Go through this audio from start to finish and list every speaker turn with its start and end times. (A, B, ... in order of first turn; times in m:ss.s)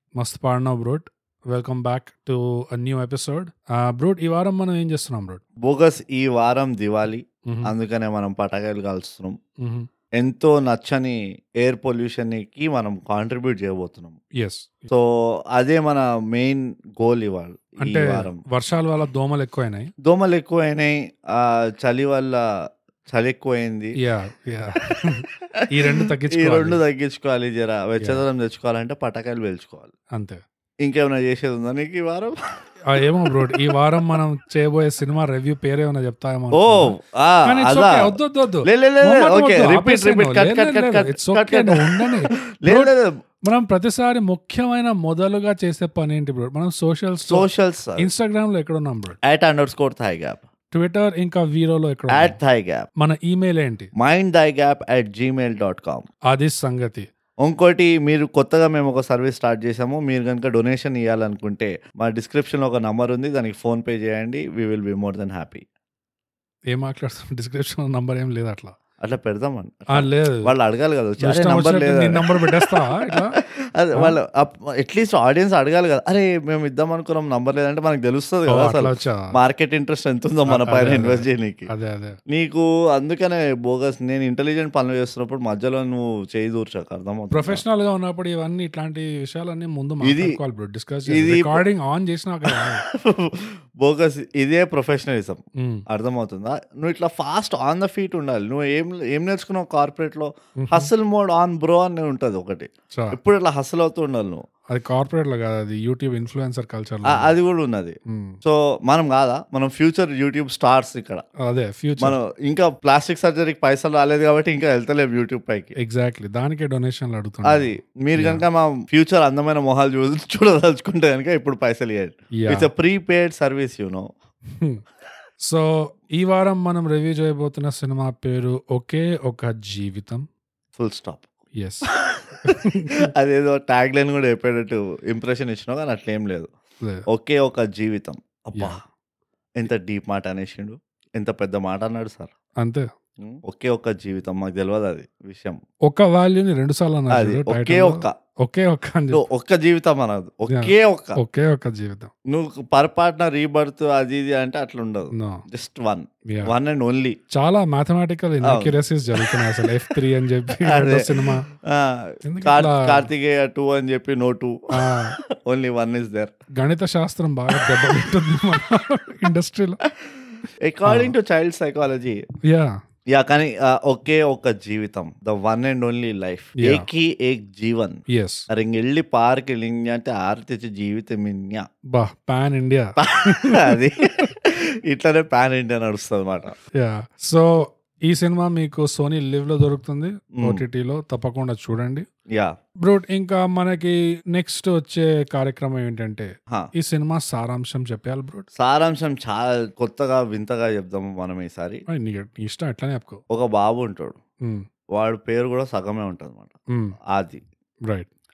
0:00.2-0:05.4 A
0:05.6-0:09.4 B
0:07.5-0:07.7 A
0:09.6-0:09.9 A
0:10.2-0:14.2 B
0:14.4-0:14.9 A
0:14.9-0:18.4 B
0:17.8-0:19.9 A
0:20.0-0:22.4 B
0:23.1-0:23.9 B
0:24.0-0:26.8 A
0:25.0-0:29.9 B
0:30.1-0:30.4 A
0:30.8-0:32.3 B
0:32.9-0:36.9 A
0:33.4-0:34.2 B
0:36.5-0:43.2 B
0:37.4-0:42.9 A
0:43.5-0:47.5 A
0:47.3-0:48.1 B
0:48.0-0:49.2 A
0:49.2-0:50.4 B
0:50.7-0:52.4 A
0:52.1-0:52.9 B
0:53.0-0:53.9 A
0:54.0-0:56.1 B
0:56.3-0:57.1 A
0:57.4-1:05.6 B
1:06.7-1:08.8 A
1:09.0-1:21.7 B
1:09.9-1:10.5 A
1:11.2-1:13.4 A
1:18.5-1:19.4 A
1:20.5-1:22.2 A
1:22.3-1:27.6 B
1:27.3-1:32.8 A
1:30.0-1:30.4 B
1:31.1-1:31.6 B
1:32.4-1:44.4 B
1:35.6-1:35.8 A
1:40.6-1:40.9 A
1:42.9-1:43.2 A
1:44.7-1:47.3 A
1:47.1-1:51.2 B
1:48.1-1:48.4 A
1:51.4-1:52.2 A
1:52.0-1:55.8 B
1:55.8-1:58.4 A
1:57.4-2:04.1 B
2:02.4-2:02.7 A
2:05.4-2:10.3 A
2:10.8-2:11.3 B
2:11.6-2:11.9 A
2:11.9-2:16.5 B
2:12.4-2:13.1 A
2:17.1-2:18.8 B
2:19.6-2:22.3 B
2:22.6-2:22.9 A
2:23.2-2:25.6 B
2:25.9-2:29.2 A
2:27.1-2:28.2 B
2:29.1-2:31.2 B
2:30.5-2:32.1 A
2:32.3-2:37.2 B
2:35.1-2:35.4 A
2:36.3-2:36.5 A
2:37.3-2:41.4 A
2:38.4-2:39.9 B
2:40.6-2:46.3 B
2:42.2-2:43.1 A
2:44.7-2:45.2 A
2:46.6-2:49.8 A
2:47.5-2:48.0 B
2:49.8-2:52.2 B
2:50.8-2:51.1 A
2:52.5-2:52.8 A
2:53.1-3:01.7 B
2:56.6-2:56.9 A
2:58.1-2:58.5 A
3:01.9-3:04.2 A
3:03.0-3:06.5 B
3:06.8-3:12.1 A
3:10.4-3:10.6 B
3:12.8-3:18.5 A
3:18.6-3:21.8 B
3:21.9-3:23.2 A
3:23.3-3:24.2 B
3:24.9-3:26.5 B
3:27.1-3:27.4 B